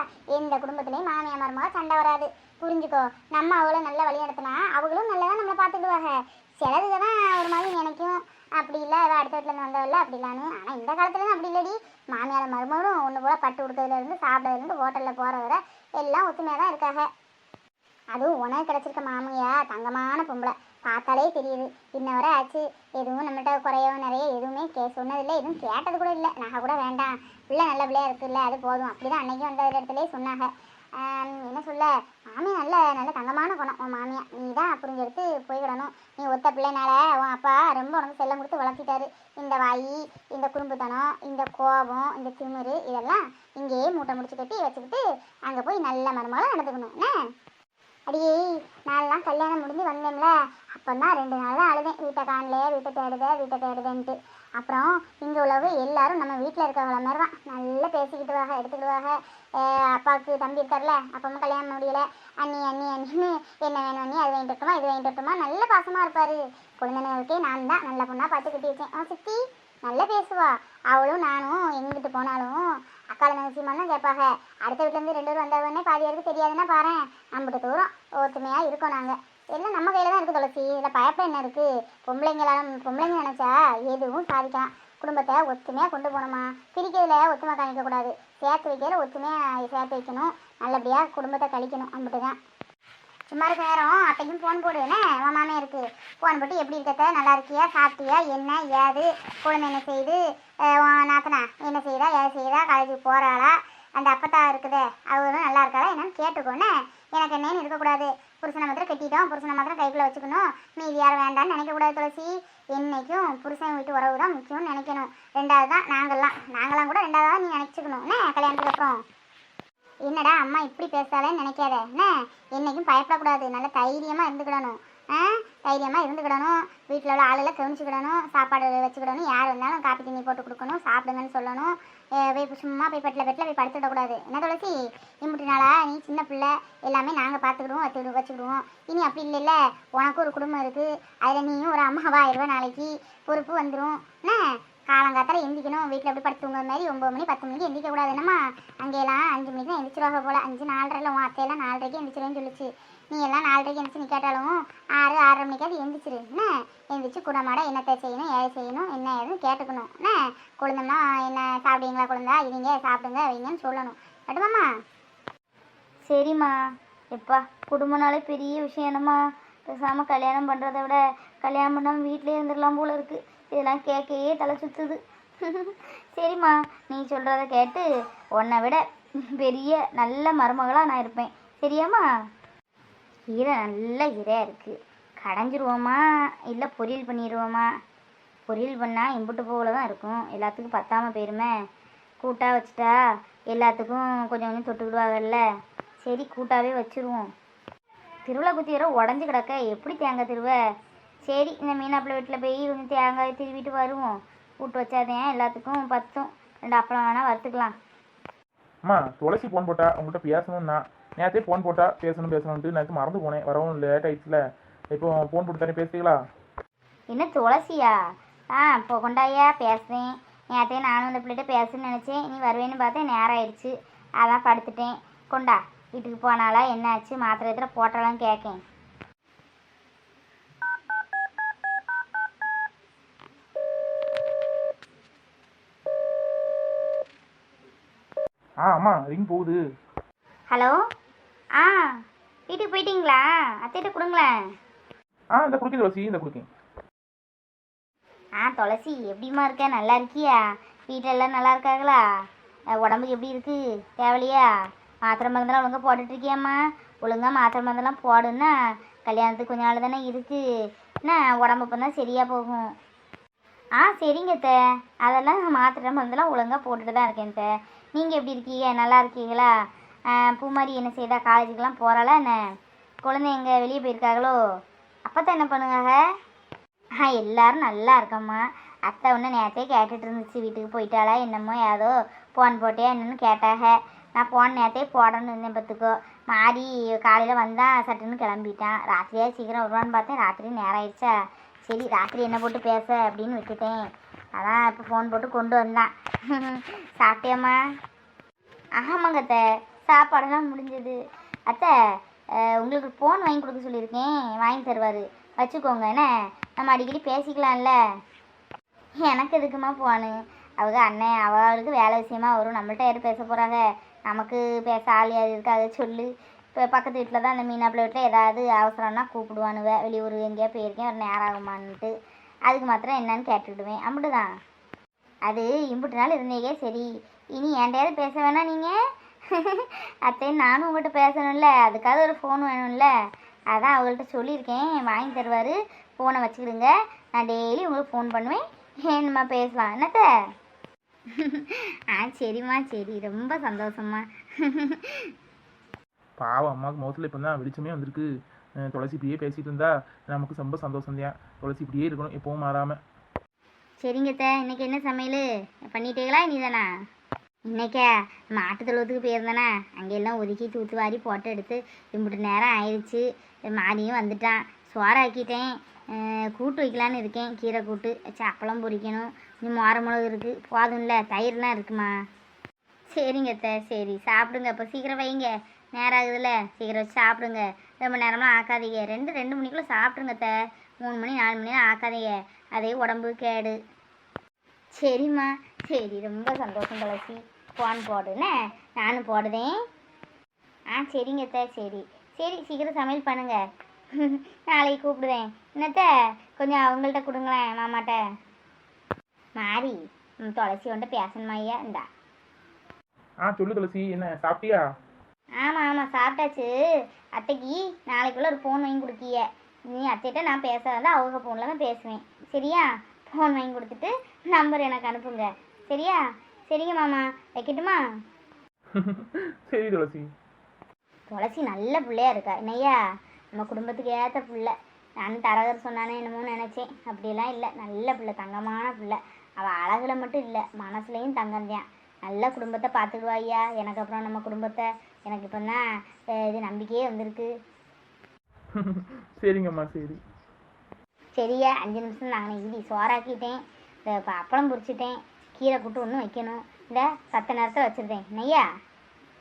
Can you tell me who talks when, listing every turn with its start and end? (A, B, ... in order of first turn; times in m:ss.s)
0:00.3-0:17.1 A
0:18.1-0:47.1 A
0:48.1-0:48.3 A
0:48.8-1:12.6 A
1:13.1-1:32.4 A
1:33.3-1:40.2 A
1:40.8-1:59.0 A
2:00.1-2:24.4 A
2:24.9-2:44.6 A
2:46.1-2:46.6 B
2:47.1-2:57.8 B
2:58.4-3:02.0 B
3:03.3-3:07.7 B
3:08.5-3:11.5 B
3:12.2-3:13.0 B
3:13.5-3:15.4 B
3:16.0-3:17.3 B
3:18.3-3:20.6 B
3:21.2-3:27.7 B
3:28.8-3:34.4 C
3:34.9-3:36.2 C
3:37.1-3:38.0 B
3:38.5-3:48.6 B
3:58.6-3:59.6 C
4:00.5-4:00.8 B
4:01.6-4:04.3 B
4:05.4-4:06.5 C
4:08.4-4:12.0 B
4:12.8-4:14.5 B
4:15.1-4:18.5 B
4:19.0-4:20.4 B
4:21.0-4:22.7 B
4:23.8-4:29.5 B
4:30.1-4:32.4 B
4:33.0-4:34.4 B
4:35.1-4:36.0 B
4:37.0-4:51.1 B
4:51.7-4:53.8 B
4:54.4-4:57.6 B
4:58.8-5:01.7 B
5:02.4-5:07.7 B
5:09.0-5:21.9 B
5:22.5-5:24.3 B
5:25.3-5:28.7 B
5:29.3-5:32.9 B
5:33.5-5:40.0 B
5:41.2-5:45.1 B
5:46.2-5:48.1 C
5:48.6-5:52.8 C
5:53.8-5:56.7 B
5:57.5-6:11.9 B
6:12.9-6:23.6 B
6:24.7-6:29.5 B
6:30.7-6:33.4 B
6:34.0-6:38.0 B
6:39.4-6:41.8 B
6:43.2-6:44.6 C
6:45.4-6:46.5 B
6:47.2-6:57.8 B
6:58.8-7:00.1 C
7:01.1-7:02.8 B
7:03.4-7:15.6 B
7:16.2-7:17.3 B
7:18.6-7:20.0 C
7:21.2-7:28.4 B